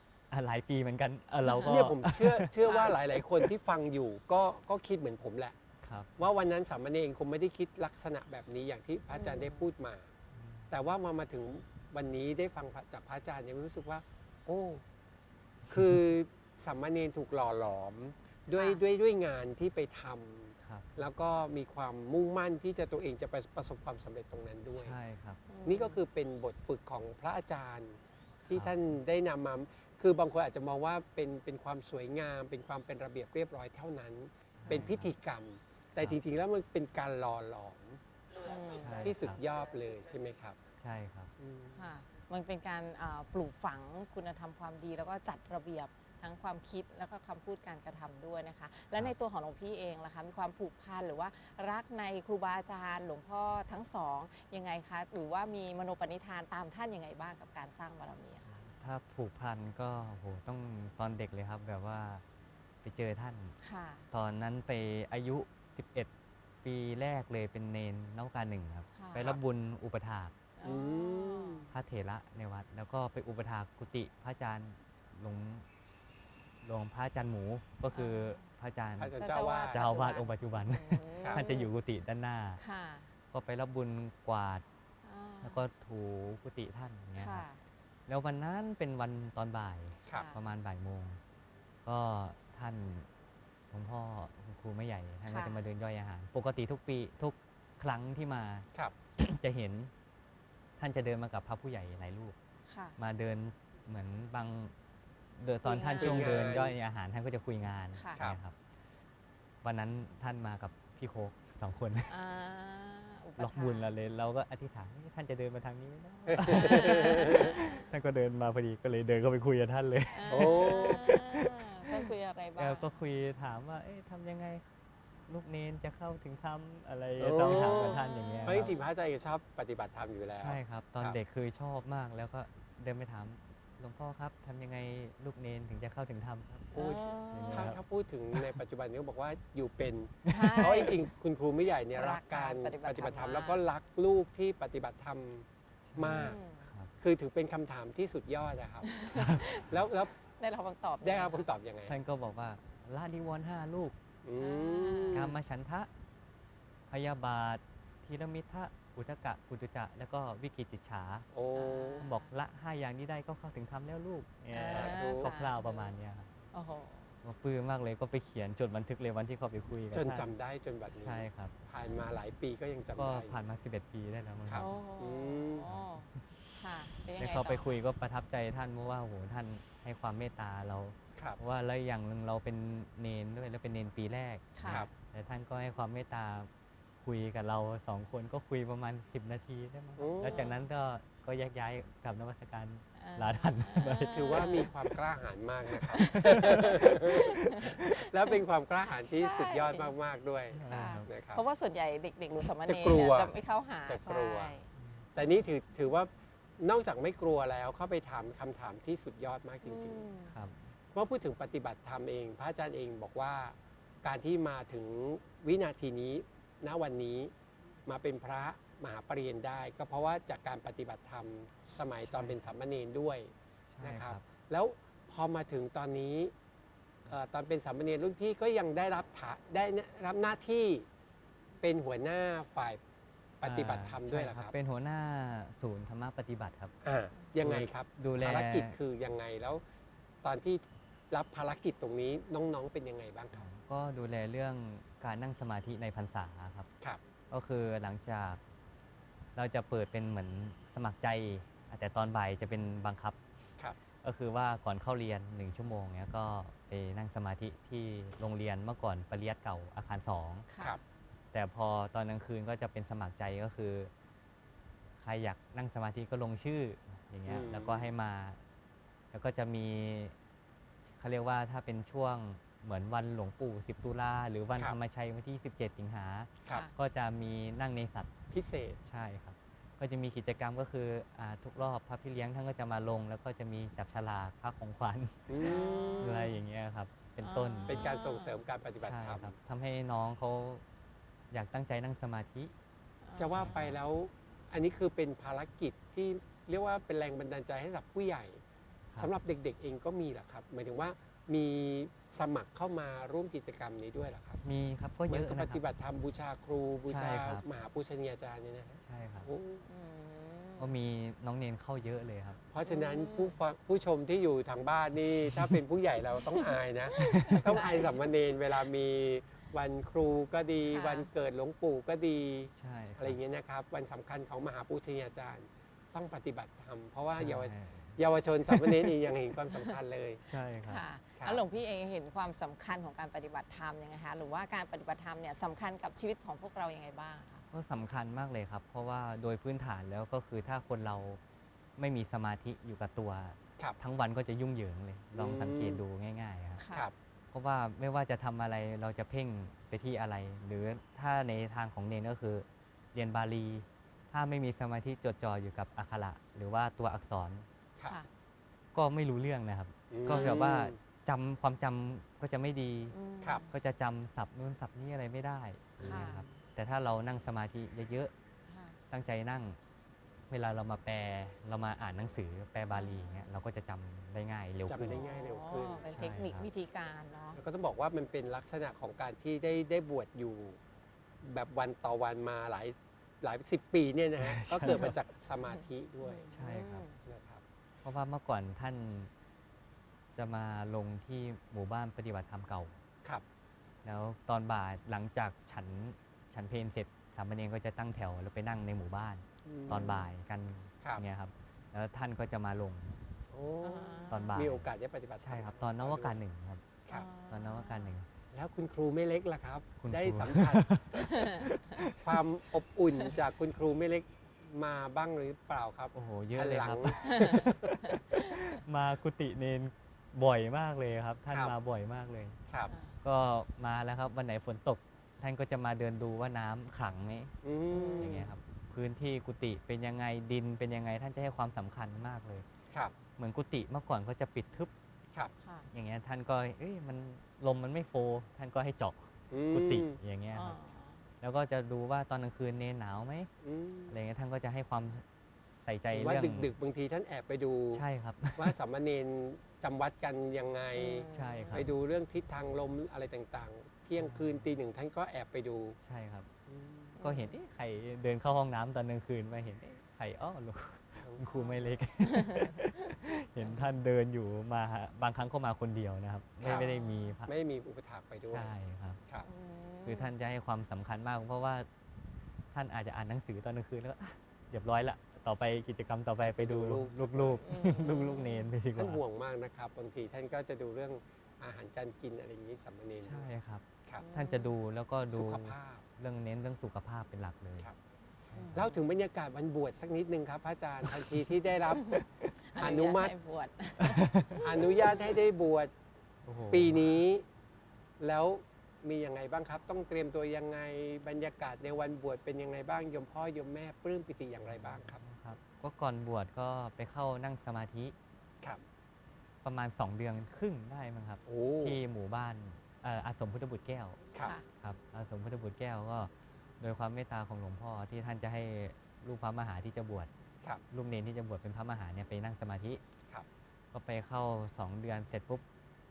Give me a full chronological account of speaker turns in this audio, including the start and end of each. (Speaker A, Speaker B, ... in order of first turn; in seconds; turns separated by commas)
Speaker A: 0.3-2.5, Speaker B: 1.6-5.6, Speaker C: 2.7-3.0, Speaker A: 5.8-6.2, Speaker B: 6.2-10.1, Speaker C: 9.1-9.7, Speaker A: 10.3-10.7, Speaker B: 10.7-14.8, Speaker B: 15.7-24.9, Speaker C: 18.6-18.8, Speaker A: 20.6-20.9, Speaker A: 24.7-25.4, Speaker C: 25.5-26.0, Speaker B: 25.6-38.0, Speaker A: 28.5-28.8, Speaker A: 34.6-35.1, Speaker C: 38.4-39.1, Speaker B: 38.8-40.6, Speaker A: 38.8-39.4, Speaker A: 40.8-41.3, Speaker B: 41.4-41.9, Speaker C: 41.8-58.5, Speaker A: 58.5-62.2, Speaker A: 62.8-63.6, Speaker C: 63.6-64.1, Speaker A: 64.1-66.1, Speaker A: 66.6-70.3, Speaker C: 69.0-69.3, Speaker C: 70.6-71.7, Speaker B: 70.6-71.7, Speaker A: 71.7-75.6, Speaker A: 76.6-79.2, Speaker C: 77.9-78.4, Speaker B: 79.0-79.8, Speaker C: 79.2-81.7, Speaker A: 79.7-82.6, Speaker C: 82.6-83.1, Speaker A: 83.3-84.6, Speaker C: 85.0-85.6, Speaker A: 85.4-87.4, Speaker C: 87.2-87.6, Speaker A: 88.1-91.2, Speaker C: 90.1-90.4, Speaker A: 91.8-93.1, Speaker A: 93.7-99.9, Speaker C: 95.2-95.6, Speaker A: 100.8-102.4, Speaker C: 102.7-103.0, Speaker A: 103.0-104.7, Speaker A: 105.4-108.6, Speaker C: 105.6-106.4, Speaker B: 106.0-106.8, Speaker C: 108.0-108.2, Speaker A: 109.6-112.1, Speaker C: 112.1-113.9, Speaker A: 113.4-124.6, Speaker B: 116.3-117.6, Speaker C: 116.4-117.9, Speaker C: 120.1-122.9, Speaker B: 120.3-121.1, Speaker A: 125.3-128.7, Speaker B: 127.2-131.2, Speaker C: 127.4-128.9, Speaker A: 130.4-137.8, Speaker C: 136.7-137.7, Speaker B: 136.8-146.4, Speaker A: 140.3-140.7, Speaker C: 140.3-141.0, Speaker C: 141.9-143.6, Speaker A: 145.9-146.9, Speaker C: 146.0-146.7, Speaker B: 147.0-148.9, Speaker C: 148.9-149.7, Speaker A: 149.1-149.8, Speaker B: 149.5-150.1, Speaker C: 150.4-151.5, Speaker B: 151.0-152.0, Speaker A: 151.9-153.9, Speaker B: 154.2-155.3, Speaker C: 154.4-155.3, Speaker A: 155.1-155.9, Speaker A: 156.9-161.3, Speaker B: 161.3-162.1, Speaker C: 161.6-162.3, Speaker A: 162.0-166.3, Speaker C: 164.5-165.9, Speaker B: 164.7-165.3, Speaker C: 166.5-167.1, Speaker A: 167.2-170.3, Speaker B: 169.9-173.4, Speaker A: 171.0-171.6, Speaker A: 173.0-174.8, Speaker B: 174.5-175.7, Speaker C: 174.6-177.8, Speaker A: 175.7-176.2, Speaker A: 177.2-186.5, Speaker C: 184.6-184.9, Speaker A: 187.0-194.9, Speaker B: 190.0-190.5, Speaker C: 190.2-190.6, Speaker C: 193.0-194.8, Speaker B: 194.1-201.4, Speaker A: 195.7-197.8, Speaker C: 195.9-198.4, Speaker C: 199.0-199.9, Speaker A: 200.5-201.1, Speaker C: 200.7-204.7, Speaker B: 202.7-203.4, Speaker B: 203.9-204.6, Speaker A: 204.8-205.1, Speaker B: 205.1-210.1, Speaker C: 209.6-210.4, Speaker A: 210.3-210.7, Speaker B: 210.9-217.3, Speaker B: 217.9-226.3, Speaker A: 222.1-222.4, Speaker A: 223.7-224.2, Speaker B: 227.1-230.9, Speaker B: 231.6-232.8, Speaker B: 233.4-234.5, Speaker A: 233.4-236.8, Speaker B: 236.8-239.6, Speaker A: 237.4-238.8, Speaker B: 240.2-243.5, Speaker A: 243.3-246.7, Speaker A: 247.3-248.4, Speaker A: 249.3-253.2, Speaker A: 254.0-260.5, Speaker C: 260.5-260.8, Speaker A: 261.3-263.9, Speaker A: 265.0-268.4, Speaker B: 267.3-267.9, Speaker A: 269.1-270.1, Speaker A: 271.0-278.1, Speaker C: 276.5-276.7, Speaker B: 278.3-278.8, Speaker A: 278.8-285.3, Speaker B: 285.3-286.3, Speaker C: 285.4-286.4, Speaker A: 286.0-287.9, Speaker C: 287.2-288.4, Speaker B: 287.7-289.4, Speaker A: 288.8-290.6, Speaker A: 291.3-292.5, Speaker C: 293.0-293.5, Speaker B: 293.2-298.4, Speaker A: 293.3-293.8, Speaker B: 299.0-304.4, Speaker A: 304.4-305.6, Speaker B: 305.1-309.6, Speaker A: 306.9-307.4, Speaker A: 308.8-309.3, Speaker C: 309.7-310.8, Speaker A: 310.6-312.4, Speaker B: 312.5-330.2, Speaker C: 312.6-313.3, Speaker A: 315.3-315.6, Speaker C: 316.2-318.0, Speaker A: 317.0-317.6, Speaker C: 320.7-321.1, Speaker A: 322.6-323.2, Speaker A: 327.1-329.1, Speaker C: 329.5-329.8, Speaker A: 330.3-330.8, Speaker C: 330.6-337.4, Speaker A: 337.5-341.2, Speaker A: 341.8-346.6, Speaker B: 345.1-345.8, Speaker C: 346.6-346.9, Speaker A: 347.3-357.5, Speaker A: 358.7-362.9, Speaker B: 359.9-360.8, Speaker C: 360.1-360.4, Speaker C: 362.9-363.5, Speaker A: 363.5-368.1, Speaker B: 365.8-366.3, Speaker C: 365.8-366.2, Speaker C: 368.5-368.8, Speaker A: 368.9-369.6, Speaker A: 370.3-375.0, Speaker C: 372.7-373.3, Speaker B: 374.7-375.8, Speaker C: 374.9-377.4, Speaker A: 375.9-376.5, Speaker B: 377.3-380.6, Speaker B: 381.2-386.3, Speaker A: 384.2-385.0, Speaker C: 385.5-387.0, Speaker A: 386.3-386.9, Speaker B: 387.0-387.4, Speaker A: 387.8-389.1, Speaker A: 390.1-392.8, Speaker A: 393.8-403.0, Speaker B: 399.4-400.1, Speaker B: 403.3-406.2, Speaker C: 403.6-404.4, Speaker A: 404.1-404.7, Speaker A: 405.2-406.8, Speaker C: 406.9-407.9, Speaker A: 407.3-408.1, Speaker B: 408.3-411.0, Speaker A: 409.8-412.0, Speaker C: 411.1-411.5, Speaker B: 411.9-417.8, Speaker A: 415.9-422.4, Speaker C: 417.0-418.4, Speaker B: 422.5-422.7, Speaker C: 422.7-423.0, Speaker A: 423.0-427.3, Speaker B: 427.4-428.3, Speaker C: 427.7-428.2, Speaker A: 428.0-432.5, Speaker A: 433.2-434.7, Speaker C: 435.4-435.7, Speaker A: 435.7-440.6, Speaker B: 439.3-440.0, Speaker C: 440.3-441.0, Speaker A: 441.2-443.3, Speaker B: 443.4-444.0, Speaker A: 443.9-445.0, Speaker A: 445.6-446.5, Speaker B: 445.9-447.8, Speaker A: 447.7-448.6, Speaker B: 448.4-455.8, Speaker C: 450.8-451.7, Speaker A: 451.1-451.7, Speaker A: 453.9-454.6, Speaker A: 455.8-456.3, Speaker B: 456.5-457.0, Speaker C: 457.0-457.4, Speaker A: 457.0-467.3, Speaker C: 461.3-462.5, Speaker B: 466.4-466.7, Speaker C: 466.4-467.2, Speaker B: 467.3-468.5, Speaker A: 468.2-469.0, Speaker C: 469.2-470.1, Speaker A: 469.8-471.7, Speaker A: 472.5-479.0, Speaker B: 476.3-477.4, Speaker C: 477.4-478.5, Speaker B: 478.8-483.3, Speaker A: 483.0-487.7, Speaker C: 484.0-484.5, Speaker B: 485.1-485.8, Speaker A: 488.3-488.7, Speaker C: 488.3-488.8, Speaker B: 488.5-492.0, Speaker A: 490.9-491.3, Speaker C: 491.7-494.8, Speaker B: 492.6-493.1, Speaker A: 493.8-494.5, Speaker B: 494.4-495.7, Speaker A: 496.2-496.9, Speaker B: 496.5-497.2, Speaker B: 498.0-505.0, Speaker A: 504.5-507.9, Speaker A: 509.4-514.0, Speaker B: 511.2-511.8, Speaker C: 514.2-514.5, Speaker A: 514.6-520.1, Speaker A: 520.7-522.8, Speaker A: 523.7-525.4